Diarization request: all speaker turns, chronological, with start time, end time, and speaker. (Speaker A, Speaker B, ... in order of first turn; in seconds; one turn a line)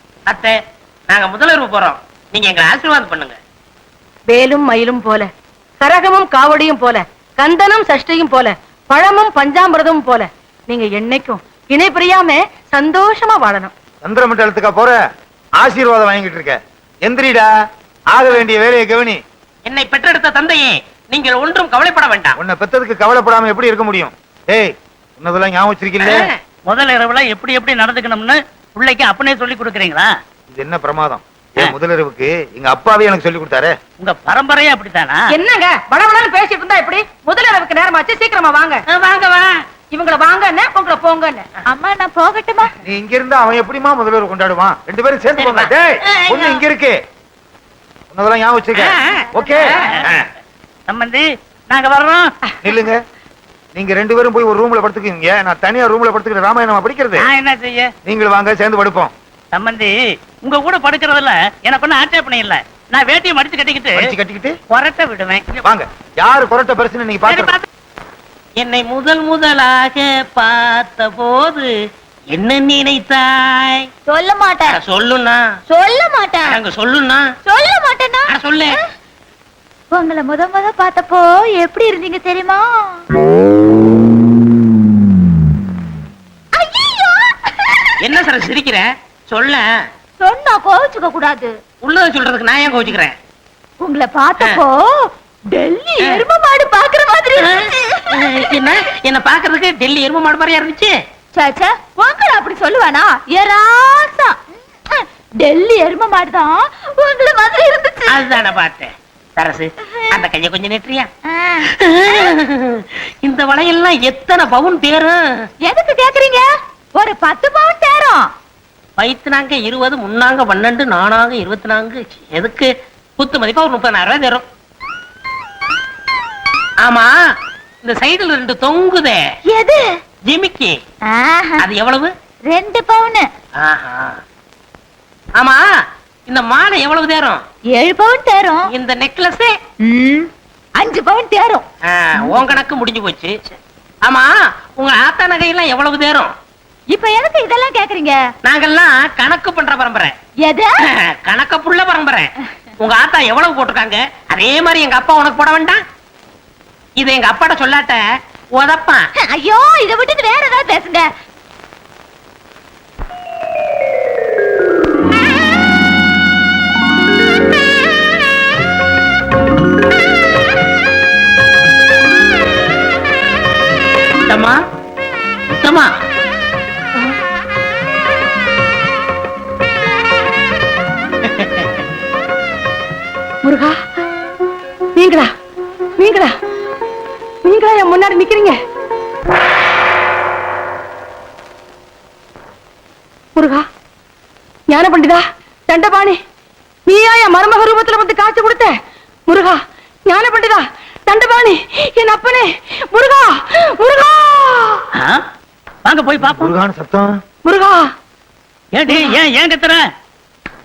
Speaker A: 0.3-0.5
Speaker A: 1.1-3.4
Speaker B: 4.3-5.3
Speaker B: 5.8-13.7
Speaker C: 14.0-15.0
Speaker C: 15.6-17.5
Speaker C: 18.1-19.2
Speaker A: 19.7-22.4
Speaker C: 22.4-26.3
Speaker A: 26.0-26.3
Speaker D: 26.6-30.1
Speaker C: 30.5-33.7
Speaker D: 34.0-35.2
Speaker B: 35.3-38.8
Speaker A: 38.9-39.6
Speaker B: 39.9-41.5
Speaker E: 41.7-42.7
Speaker C: 42.8-47.0
Speaker A: 45.4-46.6
Speaker C: 48.1-50.2
Speaker A: 48.8-50.0
Speaker D: 50.9-52.3
Speaker C: 52.6-53.0
Speaker C: 53.7-57.3
Speaker D: 57.2-57.9
Speaker C: 58.0-59.1
Speaker D: 59.5-59.9
Speaker D: 60.4-64.1
Speaker C: 63.9-64.5
Speaker D: 64.7-65.6
Speaker C: 65.6-67.5
Speaker D: 67.3-67.6
Speaker A: 68.6-71.7
Speaker A: 72.3-73.8
Speaker E: 74.1-74.8
Speaker A: 74.7-75.4
Speaker E: 75.7-76.5
Speaker A: 76.5-77.2
Speaker E: 77.4-78.3
Speaker A: 78.3-78.7
Speaker E: 79.9-83.0
Speaker E: 86.5-88.0
Speaker A: 88.0-89.6
Speaker E: 90.2-91.5
Speaker A: 91.8-93.1
Speaker E: 93.8-98.5
Speaker A: 97.4-100.9
Speaker E: 101.3-104.4
Speaker E: 104.9-108.2
Speaker A: 108.1-111.1
Speaker E: 111.3-112.3
Speaker A: 111.8-115.2
Speaker E: 115.6-118.3
Speaker A: 119.0-124.4
Speaker A: 126.8-127.1
Speaker A: 127.8-129.2
Speaker E: 129.5-129.8
Speaker A: 130.3-130.7
Speaker E: 131.1-131.6
Speaker A: 131.6-132.1
Speaker E: 132.5-133.2
Speaker A: 133.6-134.2
Speaker A: 136.3-137.4
Speaker E: 137.7-138.7
Speaker A: 138.7-139.5
Speaker E: 139.8-141.6
Speaker A: 141.9-143.3
Speaker E: 142.2-142.5
Speaker A: 144.1-146.3
Speaker E: 146.9-148.2
Speaker A: 148.4-150.1
Speaker A: 151.2-152.3
Speaker A: 152.8-155.8
Speaker A: 157.0-158.0
Speaker A: 158.6-159.0
Speaker E: 159.2-161.1
Speaker A: 174.3-174.6
Speaker A: 175.6-175.9
Speaker A: 181.3-181.7
Speaker B: 183.4-183.8
Speaker B: 184.9-185.3
Speaker B: 186.0-186.3
Speaker B: 187.4-188.6
Speaker B: 193.3-193.6
Speaker B: 194.7-196.2
Speaker B: 196.9-198.7
Speaker B: 199.3-204.8
Speaker D: 205.8-206.5
Speaker C: 206.2-207.1
Speaker B: 207.4-207.9
Speaker D: 208.7-209.8
Speaker B: 208.9-209.2